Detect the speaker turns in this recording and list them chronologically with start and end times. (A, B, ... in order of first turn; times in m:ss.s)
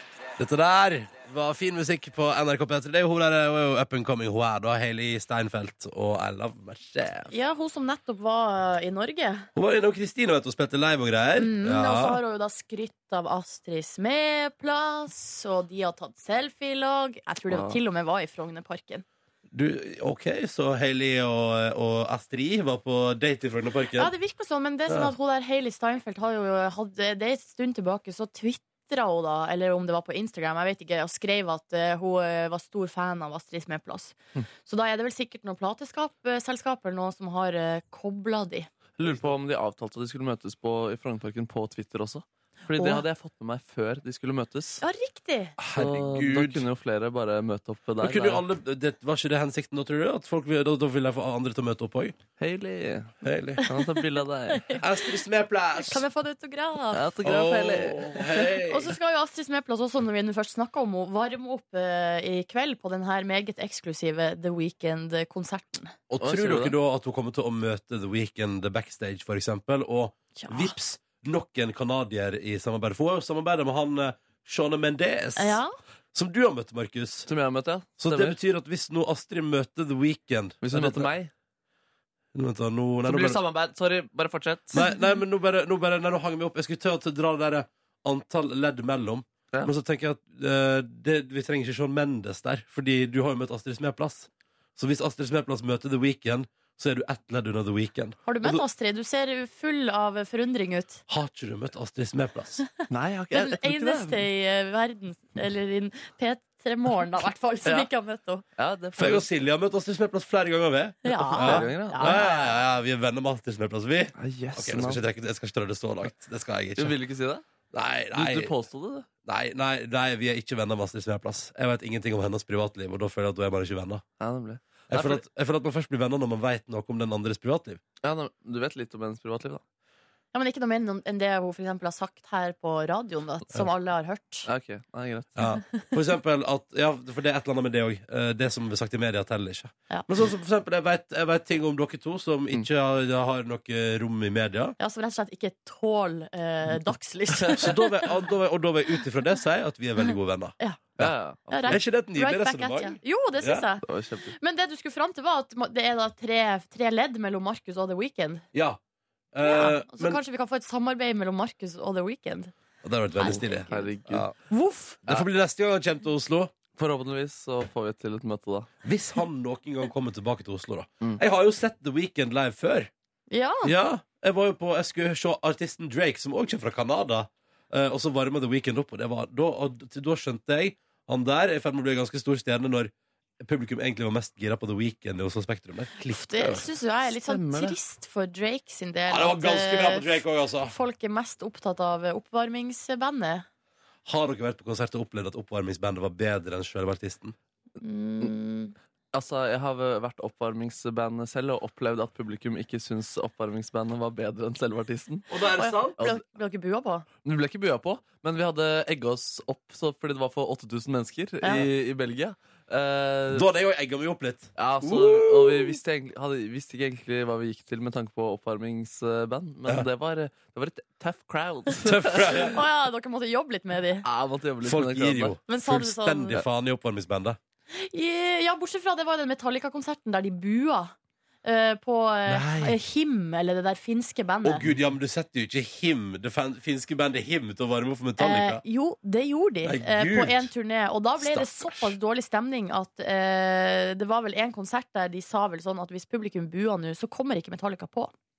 0:00.4-0:07.3 A
0:07.3-0:09.5 B
0:09.5-0:12.2 A
0:11.4-0:19.0 B
0:17.5-0:17.8 C
0:19.5-0:24.1 A
0:24.0-0:38.7 B
0:39.0-0:44.8 C
0:42.8-0:43.0 B
0:44.8-0:45.5 B
0:45.6-0:46.6 A
0:45.7-0:48.4 C
0:48.0-0:52.2 A
0:52.4-0:54.8 C
0:53.2-0:53.6 A
0:54.8-0:56.0 A
0:55.8-0:57.0 B
0:56.9-0:58.4 C
0:57.2-0:58.9 A
0:58.6-1:05.9 B
1:06.1-1:15.6 A
1:06.2-1:06.7 C
1:10.4-1:10.7 B
1:15.4-1:15.7 B
1:16.1-1:17.3 A
1:17.3-1:18.4 C
1:18.0-1:21.1 A
1:20.6-1:21.3 C
1:22.3-1:23.4 A
1:23.0-1:24.8 C
1:24.7-1:38.6 A
1:38.2-1:41.0 B
1:41.1-1:42.6 A
1:42.9-1:44.3 C
1:43.3-1:48.4 B
1:48.6-1:49.2 C
1:49.0-1:57.0 A
1:51.0-1:52.5 B
1:51.2-1:52.2 C
1:54.2-1:55.0 C
1:56.8-1:57.4 C
1:57.7-1:58.5 A
1:58.1-1:59.0 C
1:59.2-2:04.0 A
2:04.2-2:05.2 C
2:04.9-2:07.8 A
2:08.0-2:09.6 C
2:10.3-2:14.5 B
2:14.5-2:15.4 C
2:15.4-2:24.8 A
2:24.8-2:28.1 B
2:27.4-2:31.1 A
2:31.0-2:31.8 C
2:31.5-2:33.8 B
2:31.7-2:33.7 A
2:33.8-2:34.3 C
2:34.4-2:38.4 B
2:38.5-2:38.8 A
2:39.3-2:40.2 A
2:39.4-2:42.5 B
2:42.8-2:44.3 A
2:43.2-2:43.9 B
2:43.3-2:44.3 C
2:44.5-2:45.0 B
2:45.0-2:46.5 A
2:46.8-2:48.7 C
2:48.8-2:52.9 A
2:53.3-2:53.7 B
2:53.6-3:06.6 A
3:06.0-3:13.4 B
3:07.1-3:07.8 C
3:09.1-3:10.7 A
3:14.0-3:17.4 A
3:17.8-3:18.7 B
3:19.1-3:25.2 C
3:25.3-3:26.0 A
3:25.6-3:27.0 B
3:27.2-3:33.4 C
3:33.3-3:35.8 A
3:34.6-3:42.5 C
3:41.8-3:42.6 A
3:42.5-3:44.0 B
3:44.0-3:45.4 C
3:44.6-3:47.4 A
3:45.5-3:46.4 B
3:47.7-3:54.6 B
3:52.3-3:52.8 A
3:54.4-3:58.6 A
3:58.2-4:08.1 B
3:59.6-4:00.5 A
4:01.2-4:01.9 A